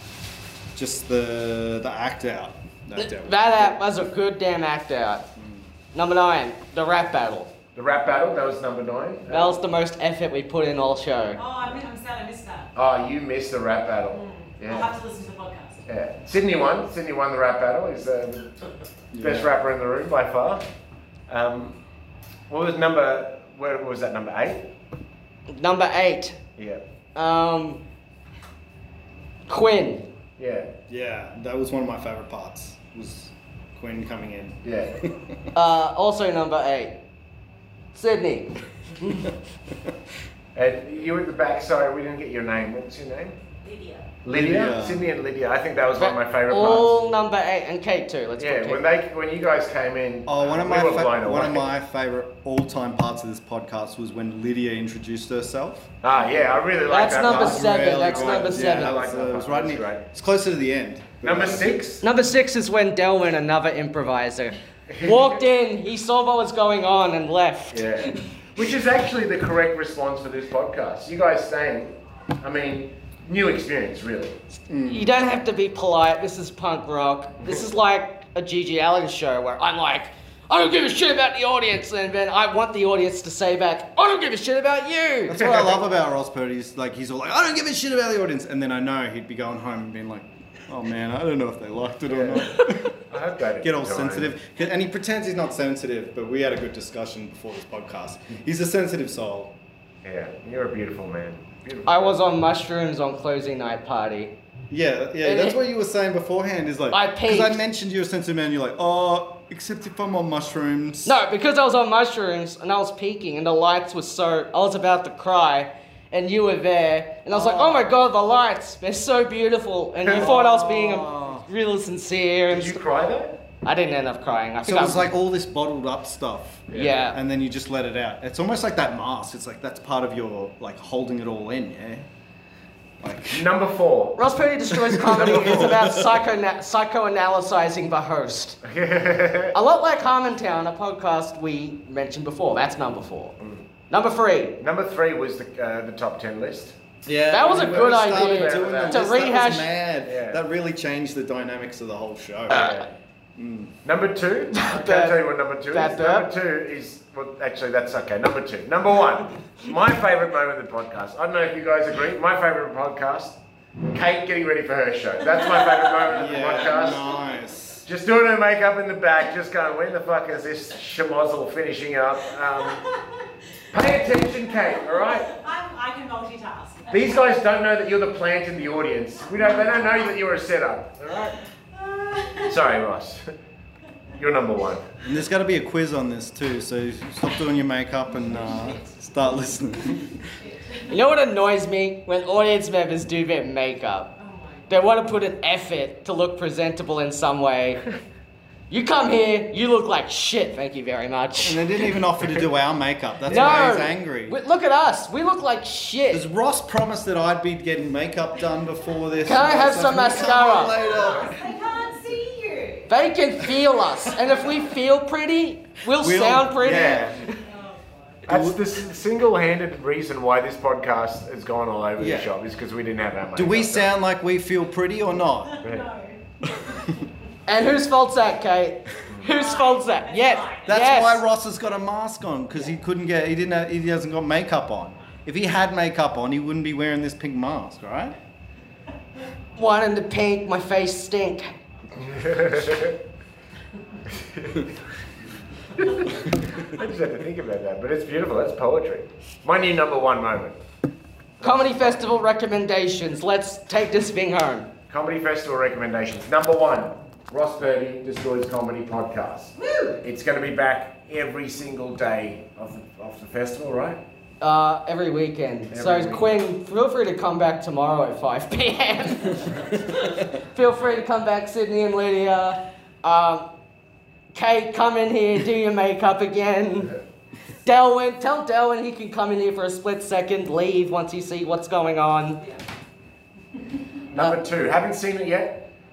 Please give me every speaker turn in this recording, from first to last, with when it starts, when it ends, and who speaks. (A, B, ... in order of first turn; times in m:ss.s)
0:00.7-0:03.8 A
0:03.0-0:05.2 B
0:05.4-0:05.7 A
0:05.9-0:07.5 B
0:07.7-0:09.6 C
0:09.3-0:11.4 B
0:11.3-0:12.7 D
0:12.7-0:14.9 C
0:14.1-0:15.8 D
0:15.9-0:18.5 C
0:19.1-0:19.6 A
0:19.2-0:20.6 C
0:21.3-0:21.8 C
0:22.5-0:24.6 C
0:25.5-0:26.4 B
0:26.6-0:26.8 C
0:27.1-0:27.8 B
0:29.5-0:30.1 B
0:30.4-0:30.7 C
0:30.9-0:35.3 A
0:34.6-0:35.0 C
0:35.5-0:37.0 B
0:37.9-0:39.3 B
0:40.5-0:43.4 C
0:43.6-0:44.1 D
0:44.2-0:47.0 C
0:44.3-0:45.1 A
0:46.0-0:48.8 B
0:48.4-0:51.7 C
0:50.2-0:55.9 A
0:56.0-1:00.0 C
0:56.9-0:59.0 B
0:57.0-1:01.8 A
1:01.2-1:02.0 C
1:02.0-1:08.2 B
1:04.9-1:05.4 C
1:07.7-1:14.4 C
1:14.7-1:15.1 A
1:14.9-1:25.7 B
1:25.3-1:32.9 A
1:25.4-1:25.7 C
1:32.1-1:34.3 C
1:33.6-1:39.5 A
1:40.0-1:42.2 C
1:41.8-1:44.3 B
1:44.7-1:51.2 A
1:45.2-1:45.6 B
1:46.9-1:47.6 B
1:51.0-2:02.8 B
1:57.3-1:57.9 A
2:00.0-2:00.3 C
2:00.0-2:01.5 A
2:02.5-2:03.4 C
2:03.6-2:05.1 B
2:04.6-2:12.1 A
2:06.7-2:07.0 C
2:06.7-2:07.2 B
2:13.0-2:13.5 A
2:13.3-2:14.3 C
2:14.2-2:18.6 B
2:14.7-2:16.2 A
2:15.0-2:15.7 C
2:18.6-2:19.5 C
2:19.5-2:23.3 B
2:23.9-2:24.6 B
2:24.6-2:26.8 C
2:27.0-2:32.8 A
2:27.3-2:29.7 B
2:27.4-2:29.2 C
2:30.0-2:30.4 C
2:32.5-2:32.9 C
2:33.4-2:33.7 A
2:33.8-2:43.4 C
2:34.5-2:36.2 B
2:43.9-2:47.2 C
2:46.1-2:47.8 A
2:47.8-2:52.8 C
2:53.7-2:55.4 C
2:55.0-2:57.2 D
2:56.9-3:01.4 C
2:59.4-2:59.8 D
3:01.7-3:02.5 D
3:02.4-3:03.3 C
3:04.1-3:04.9 C
3:05.0-3:10.2 A
3:08.3-3:09.0 D
3:09.9-3:11.0 D
3:10.9-3:14.1 B
3:14.2-3:14.9 D
3:14.7-3:17.8 B
3:18.7-3:21.7 B
3:21.4-3:24.4 A
3:23.3-3:26.2 B
3:26.1-3:31.4 A
3:29.2-3:30.9 B
3:30.6-3:32.9 D
3:32.9-3:37.4 B
3:35.9-3:37.1 A
3:36.6-3:37.2 C
3:37.4-3:38.2 D
3:38.3-3:38.6 A
3:38.3-3:43.9 C
3:42.0-3:42.3 A
3:43.3-3:45.7 A
3:45.4-3:47.0 D
3:47.5-3:51.2 B
3:49.3-3:50.7 D
3:50.6-3:58.2 A
3:59.6-4:01.5 B
4:01.9-4:03.0 C
4:04.1-4:04.7 C
4:05.7-4:10.6 C
4:11.4-4:12.0 C
4:11.4-4:14.7 B
4:14.9-4:24.0 C
4:19.6-4:20.0 D
4:24.4-4:33.5 B
4:25.7-4:26.3 C
4:34.3-4:37.0 B
4:37.6-4:42.4 B
4:44.1-4:45.7 C